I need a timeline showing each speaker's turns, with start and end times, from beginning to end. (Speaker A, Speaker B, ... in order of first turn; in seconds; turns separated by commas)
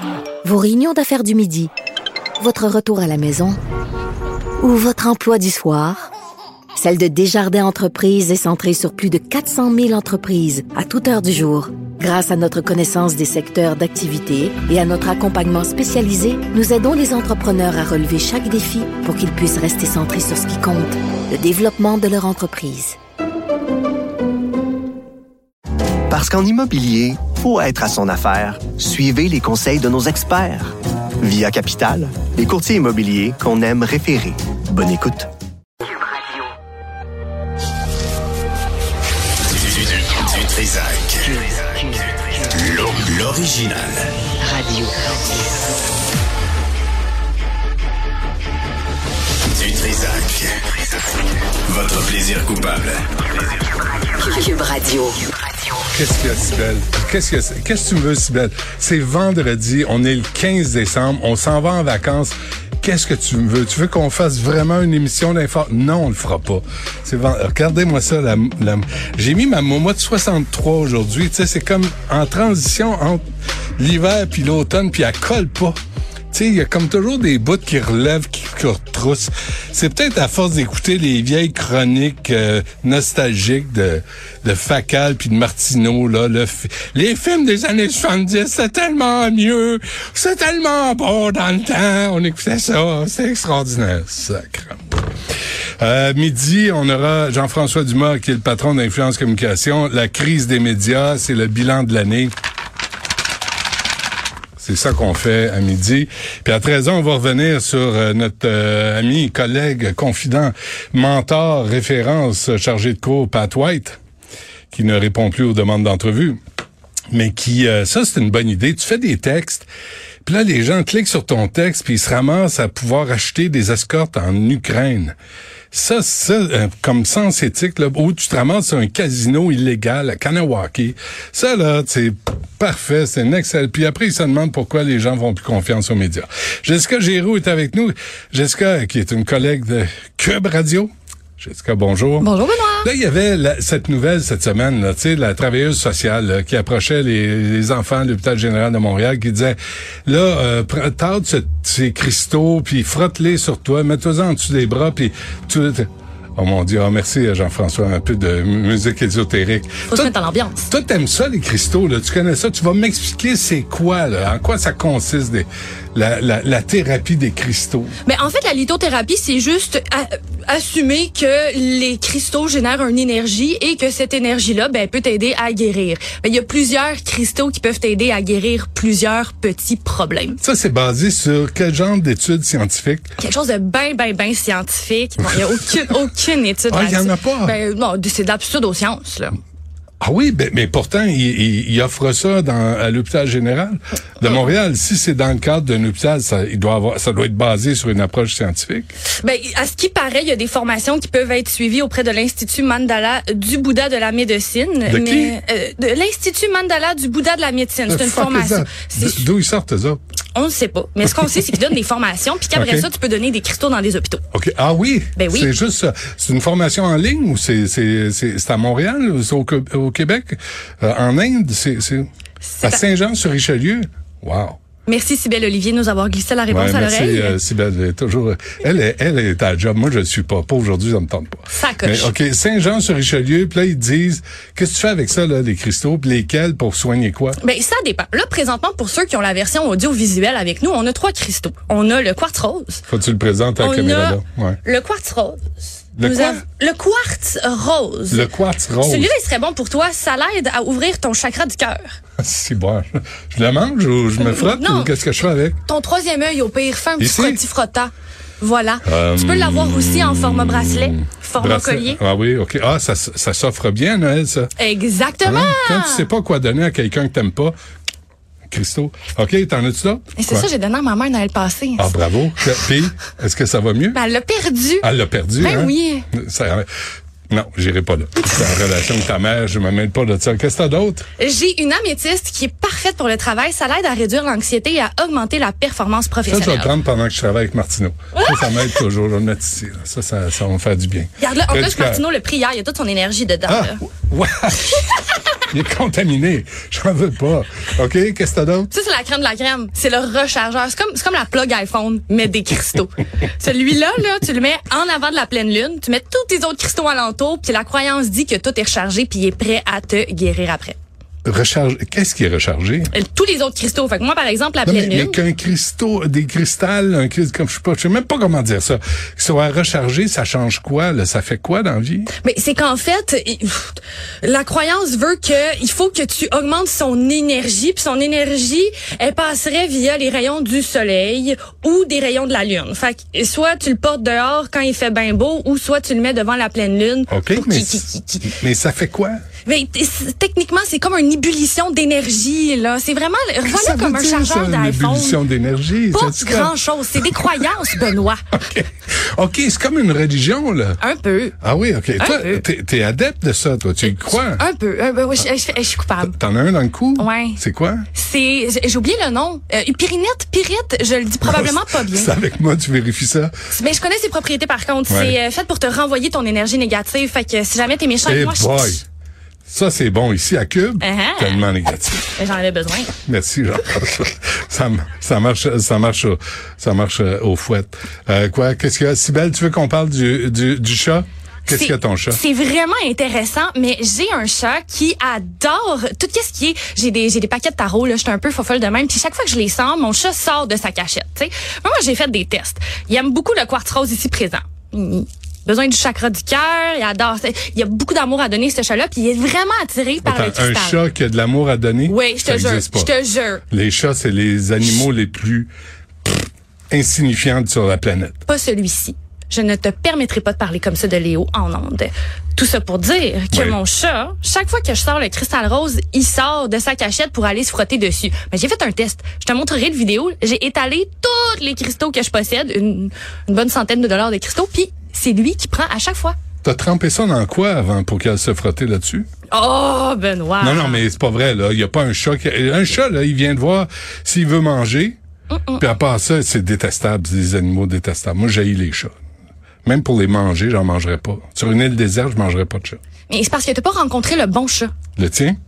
Speaker A: 0.4-1.7, Speaker A: 2.4-3.6, Speaker A: 4.6-6.1, Speaker A: 6.8-22.9, Speaker B: 26.1-35.3, Speaker C: 39.6-41.3, Speaker C: 42.6-44.1, Speaker A: 44.4-45.2, Speaker C: 49.5-50.6, Speaker C: 51.6-53.1, Speaker A: 54.1-55.1, Speaker D: 55.9-73.2, Speaker D: 73.8-75.8, Speaker D: 76.3-95.0, Speaker D: 95.8-102.3, Speaker D: 104.6-114.0, Speaker D: 114.7-116.4, Speaker D: 117.1-119.7, Speaker D: 120.2-125.1, Speaker D: 125.7-142.3, Speaker E: 142.2-142.9, Speaker D: 142.8-160.1, Speaker E: 159.9-160.7, Speaker D: 160.7-167.9, Speaker E: 168.0-180.4, Speaker D: 180.4-183.1, Speaker E: 183.2-189.4, Speaker D: 186.7-187.6, Speaker D: 190.0-198.9, Speaker E: 199.2-209.3, Speaker D: 204.8-205.4, Speaker D: 207.9-210.0, Speaker E: 210.3-214.2, Speaker D: 212.5-212.9, Speaker D: 214.3-222.1, Speaker E: 215.2-215.5, Speaker E: 222.4-222.8, Speaker D: 222.6-224.6, Speaker E: 224.9-227.4, Speaker D: 226.5-237.4, Speaker E: 231.5-232.1, Speaker E: 237.4-242.8, Speaker D: 242.9-244.6, Speaker E: 243.6-248.3, Speaker D: 246.0-246.4, Speaker D: 248.1-249.1, Speaker E: 248.8-251.9, Speaker D: 252.2-255.6, Speaker E: 254.2-254.9, Speaker E: 255.6-262.0, Speaker D: 257.0-257.4, Speaker D: 258.8-264.5, Speaker E: 264.6-266.1, Speaker D: 265.2-267.5, Speaker D: 268.5-270.5, Speaker E: 270.2-271.9, Speaker D: 271.8-274.0, Speaker E: 273.9-276.1, Speaker D: 274.8-276.7, Speaker D: 277.3-281.1, Speaker E: 281.2-286.7, Speaker D: 286.2-292.0, Speaker E: 288.1-288.7, Speaker E: 291.2-293.8, Speaker D: 293.5-294.9, Speaker D: 295.5-298.7, Speaker E: 298.7-310.8, Speaker D: 311.2-312.9, Speaker E: 312.9-315.2, Speaker D: 314.6-322.1, Speaker E: 322.2-338.3, Speaker D: 337.1-339.2, Speaker E: 339.4-345.2, Speaker D: 343.5-347.3, Speaker E: 345.9-348.2, Speaker D: 348.3-350.8, Speaker E: 350.8-351.4, Speaker D: 351.4-354.4, Speaker E: 352.0-352.4, Speaker E: 353.8-356.1, Speaker D: 356.0-357.9, Speaker E: 357.0-357.4, Speaker E: 357.9-362.1, Speaker D: 361.2-363.3, Speaker E: 363.5-368.8, Speaker D: 364.9-365.2, Speaker D: 368.1-368.8, Speaker D: 369.5-372.1, Speaker E: 370.8-371.4, Speaker E: 372.1-372.9, Speaker D: 372.9-382.2, Speaker E: 381.5-400.8, Speaker D: 400.0-402.9, Speaker E: 401.9-403.4, Speaker D: 403.5-405.5, Speaker D: 406.1-408.2, Speaker E: 408.3-426.1, Speaker D: 413.3-413.6, Speaker D: 426.4-429.1, Speaker E: 429.3-430.8, Speaker D: 430.4-435.0, Speaker E: 435.3-435.6, Speaker D: 435.6-438.9, Speaker D: 439.6-442.8, Speaker E: 443.1-444.7, Speaker D: 445.0-445.4